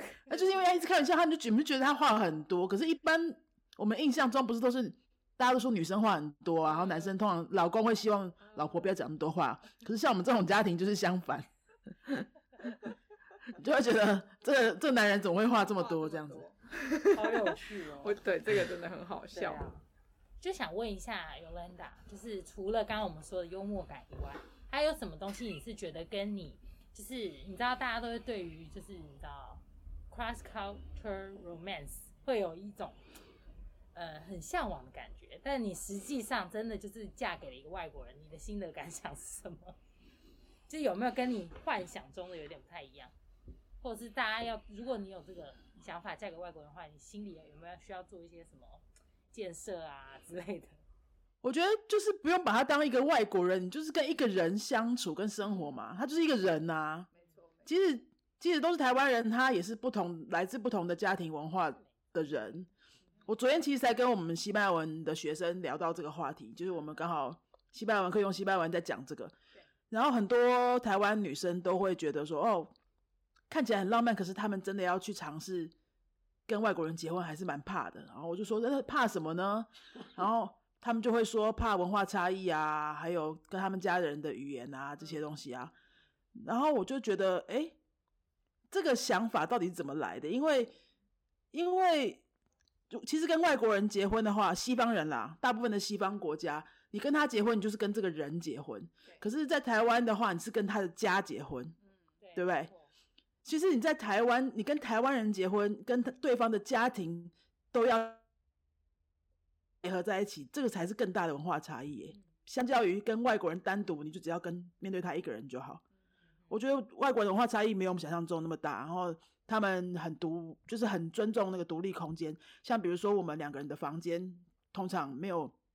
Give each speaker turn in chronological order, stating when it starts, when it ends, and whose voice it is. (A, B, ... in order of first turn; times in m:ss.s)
0:00.3-0:11.5 A
0:06.7-0:07.0 B
0:08.4-0:08.9 B
0:13.5-0:16.4 A
0:15.8-0:19.7 B
0:17.1-0:18.2 C
0:19.3-0:19.8 C
0:20.4-0:33.0 C
0:33.9-0:39.8 C
0:40.7-0:43.1 C
0:43.8-0:50.8 C
0:51.4-0:57.1 A
0:57.1-0:57.7 B
0:57.6-1:02.7 A
1:03.3-1:09.3 A
1:09.9-1:12.7 A
1:13.5-1:15.7 A
1:16.5-1:25.7 A
1:26.4-1:27.8 A
1:28.7-1:30.7 A
1:31.5-1:32.2 A
1:32.9-1:41.7 A
1:42.2-1:42.9 C
1:42.4-1:42.7 A
1:43.4-1:48.2 A
1:49.8-1:55.8 A
1:56.5-2:05.5 A